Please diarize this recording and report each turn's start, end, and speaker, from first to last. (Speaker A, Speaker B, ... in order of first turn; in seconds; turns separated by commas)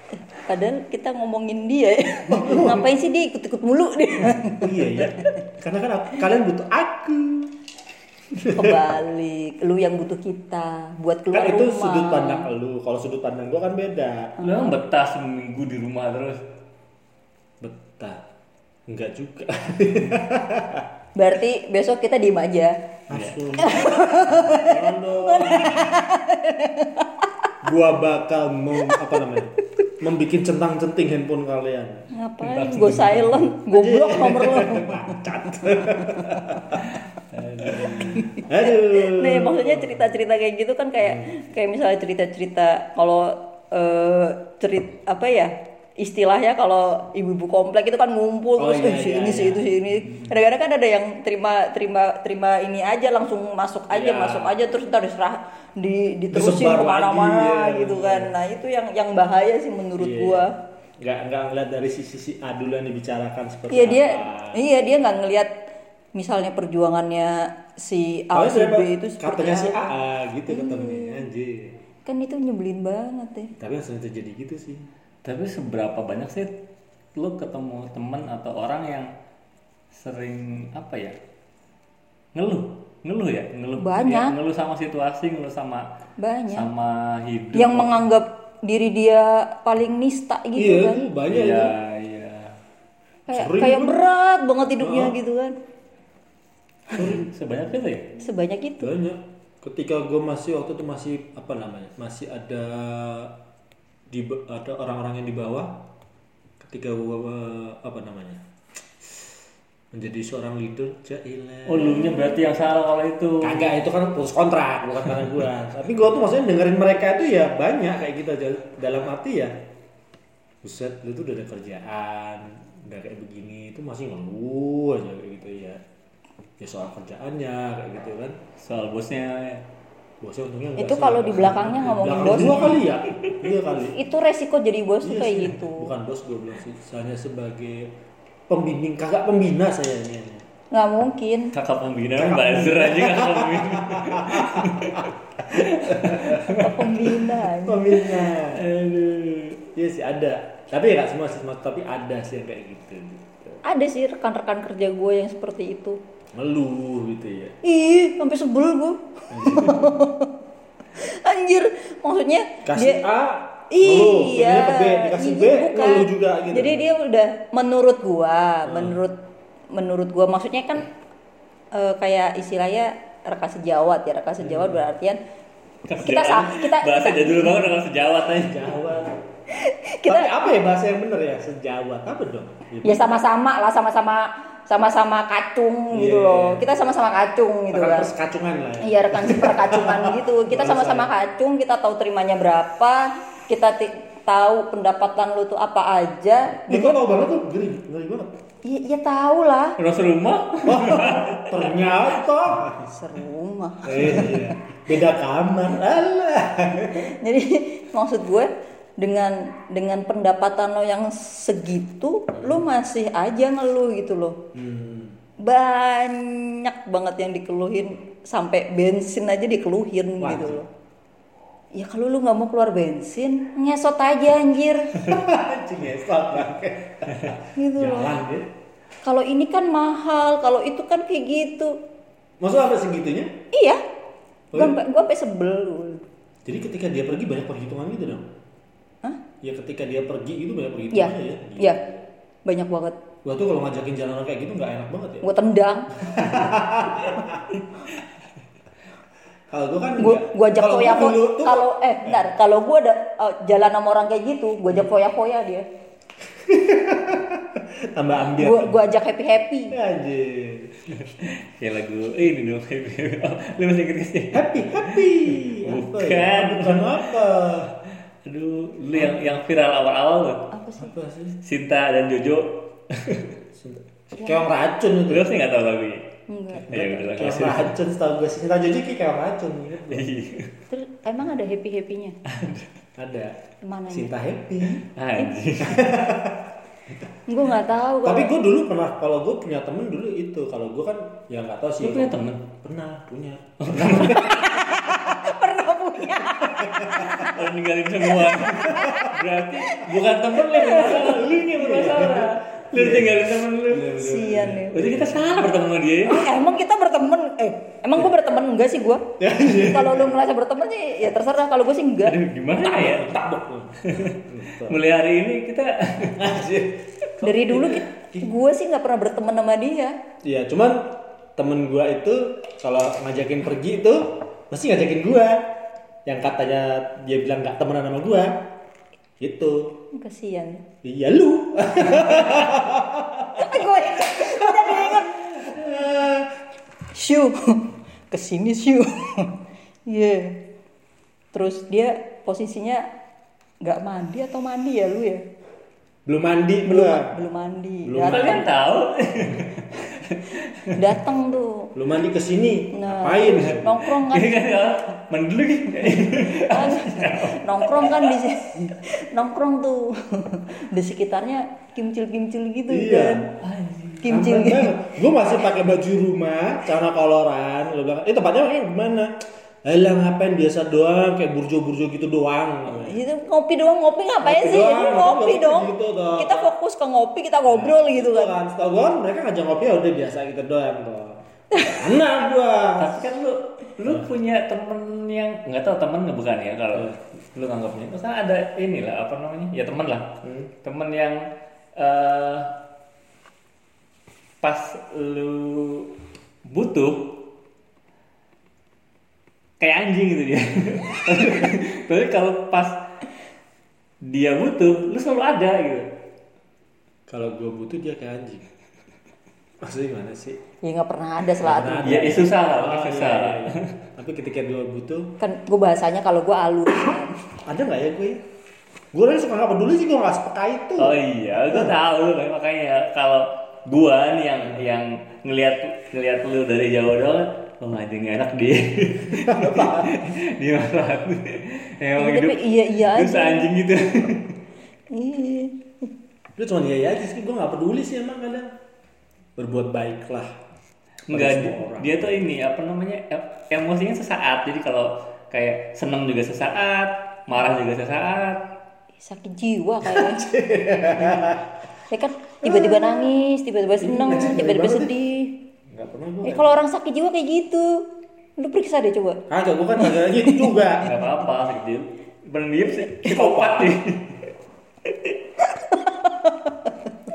Speaker A: 0.3-5.4, Speaker B: 2.3-2.9, Speaker B: 4.5-7.5, Speaker B: 8.3-8.8, Speaker A: 8.5-12.5, Speaker B: 11.3-14.4, Speaker A: 14.4-14.7, Speaker C: 14.4-16.4, Speaker B: 17.6-18.2, Speaker B: 18.9-20.9, Speaker A: 21.1-22.8, Speaker B: 23.1-26.0, Speaker C: 23.1-23.4, Speaker A: 23.6-27.1, Speaker B: 27.6-32.0, Speaker A: 32.1-36.5, Speaker C: 32.4-33.5, Speaker B: 33.7-36.9, Speaker C: 37.2-38.2, Speaker B: 37.6-40.0, Speaker A: 38.1-60.5, Speaker B: 41.0-41.3, Speaker B: 48.6-49.7, Speaker B: 53.9-54.5, Speaker B: 56.3-58.3, Speaker B: 60.0-60.5, Speaker B: 61.0-64.7, Speaker A: 63.7-65.5, Speaker A: 66.1-69.8, Speaker B: 68.3-71.8, Speaker A: 70.5-71.2, Speaker A: 72.0-73.5, Speaker B: 73.6-74.9, Speaker C: 75.2-76.5, Speaker C: 77.2-79.1, Speaker C: 79.9-81.2, Speaker C: 82.3-85.9, Speaker A: 83.8-84.3, Speaker A: 86.2-86.7, Speaker C: 86.5-88.0, Speaker A: 87.5-91.0, Speaker B: 90.5-91.8, Speaker C: 91.3-92.6, Speaker A: 93.3-95.5, Speaker B: 93.3-94.0, Speaker B: 94.8-95.1, Speaker B: 96.9-97.3, Speaker C: 97.0-98.1, Speaker A: 98.2-98.9, Speaker B: 98.8-103.3, Speaker B: 104.1-105.8, Speaker B: 106.6-108.4, Speaker B: 109.9-112.3, Speaker C: 111.7-113.8, Speaker B: 113.4-119.6, Speaker B: 120.6-125.8, Speaker B: 126.6-128.4, Speaker C: 128.6-129.6, Speaker B: 130.2-134.0, Speaker A: 130.8-132.8, Speaker A: 133.9-135.9, Speaker B: 135.0-137.9, Speaker B: 138.5-140.4, Speaker A: 140.7-141.5, Speaker C: 141.5-146.9, Speaker B: 142.2-146.4, Speaker A: 146.4-148.0, Speaker B: 147.6-148.7, Speaker C: 148.0-149.6, Speaker B: 149.7-153.6, Speaker A: 153.6-156.0, Speaker B: 156.3-157.5, Speaker A: 157.6-160.3, Speaker B: 159.3-160.0, Speaker A: 161.0-163.0, Speaker B: 162.6-166.8, Speaker A: 163.7-169.2, Speaker B: 168.6-169.0, Speaker A: 169.7-170.9, Speaker A: 171.7-175.2, Speaker B: 174.4-174.8, Speaker C: 175.8-178.8, Speaker A: 176.0-177.7, Speaker B: 178.3-179.1, Speaker A: 179.5-180.5, Speaker B: 180.1-183.1, Speaker A: 182.8-188.1, Speaker B: 185.9-186.6, Speaker B: 187.7-191.1, Speaker A: 188.8-197.0, Speaker B: 196.7-198.3, Speaker A: 198.6-199.8, Speaker C: 199.8-201.9, Speaker B: 200.6-202.9, Speaker A: 202.8-204.4, Speaker B: 203.8-207.1, Speaker A: 207.0-214.4, Speaker B: 212.3-212.6, Speaker B: 214.5-215.2, Speaker A: 215.4-220.7, Speaker B: 220.2-220.6, Speaker A: 221.7-224.9, Speaker B: 224.9-228.5, Speaker A: 227.6-228.2, Speaker A: 229.0-231.7, Speaker B: 232.4-233.3, Speaker A: 233.5-233.8, Speaker B: 234.5-234.8, Speaker A: 234.5-236.0, Speaker B: 236.4-238.3, Speaker B: 239.4-242.0, Speaker A: 240.9-241.8, Speaker A: 242.4-243.0, Speaker B: 243.2-245.3, Speaker A: 245.2-245.9, Speaker B: 246.0-247.5, Speaker B: 249.5-252.2, Speaker A: 250.0-255.6, Speaker B: 256.3-258.8, Speaker A: 258.4-259.8, Speaker B: 259.7-260.8, Speaker C: 261.0-267.2, Speaker B: 264.3-267.7, Speaker C: 268.2-270.5, Speaker B: 268.9-269.4, Speaker A: 270.5-270.9, Speaker B: 270.8-271.4, Speaker C: 271.4-273.3, Speaker B: 273.5-275.3, Speaker A: 274.2-274.4, Speaker C: 275.1-276.0, Speaker A: 276.3-276.7, Speaker C: 276.7-277.7, Speaker B: 276.7-280.1, Speaker C: 279.9-280.5, Speaker A: 280.7-282.2, Speaker C: 282.3-282.7, Speaker B: 283.0-283.4, Speaker A: 283.6-284.1, Speaker B: 283.9-284.9, Speaker C: 284.8-285.9, Speaker B: 285.6-286.5, Speaker A: 287.3-288.3, Speaker B: 288.0-295.1, Speaker C: 291.8-292.4, Speaker C: 293.6-294.3, Speaker A: 294.1-297.4, Speaker B: 296.6-297.1, Speaker C: 296.8-303.9, Speaker A: 298.1-299.1, Speaker B: 298.7-299.1, Speaker A: 300.4-301.2, Speaker B: 300.8-305.3, Speaker A: 303.9-304.8, Speaker C: 304.7-306.3, Speaker A: 306.1-312.2, Speaker B: 309.2-310.1, Speaker C: 312.0-313.1, Speaker B: 312.6-314.8, Speaker C: 313.8-316.2, Speaker B: 316.2-318.3, Speaker A: 317.2-319.9, Speaker B: 320.2-325.5, Speaker B: 326.1-328.4, Speaker B: 329.2-329.7, Speaker A: 329.9-330.6, Speaker B: 330.8-336.3, Speaker A: 333.3-335.4, Speaker A: 336.9-339.3, Speaker A: 339.9-340.4, Speaker A: 341.3-342.8, Speaker A: 343.6-345.2, Speaker B: 346.1-347.1, Speaker A: 346.6-348.5, Speaker B: 347.8-348.4, Speaker C: 348.1-350.8, Speaker A: 350.7-351.7, Speaker B: 351.7-353.8, Speaker A: 352.7-354.4, Speaker C: 353.8-358.1, Speaker A: 356.3-363.3, Speaker B: 362.7-363.2, Speaker C: 363.4-364.1, Speaker A: 364.0-364.8, Speaker B: 364.1-369.1, Speaker B: 369.6-373.0, Speaker A: 372.8-378.3, Speaker B: 374.2-376.5, Speaker B: 377.5-382.9, Speaker A: 381.5-381.8, Speaker C: 382.8-391.2, Speaker B: 383.8-384.1, Speaker B: 390.2-390.5, Speaker C: 391.8-392.5, Speaker C: 394.4-395.9, Speaker C: 396.5-397.1, Speaker C: 399.6-402.8, Speaker C: 404.0-405.9, Speaker B: 407.1-408.4, Speaker B: 409.6-410.4, Speaker A: 410.6-412.3, Speaker B: 411.4-415.1, Speaker C: 411.8-413.7, Speaker A: 415.2-417.2, Speaker B: 417.4-418.2, Speaker B: 418.9-421.7, Speaker C: 420.8-434.4, Speaker B: 429.1-429.9, Speaker A: 432.0-433.5, Speaker A: 434.9-435.9, Speaker B: 436.4-438.5, Speaker B: 439.4-440.4, Speaker B: 441.1-442.1, Speaker C: 441.1-448.4, Speaker A: 449.0-450.2, Speaker B: 449.8-451.4, Speaker A: 451.9-455.4, Speaker B: 452.4-453.1, Speaker B: 453.8-454.9, Speaker B: 455.7-456.6, Speaker A: 456.2-457.8, Speaker A: 458.4-459.2, Speaker B: 459.3-460.9, Speaker A: 459.8-460.5, Speaker C: 460.8-464.3, Speaker B: 463.1-463.7, Speaker A: 465.5-466.7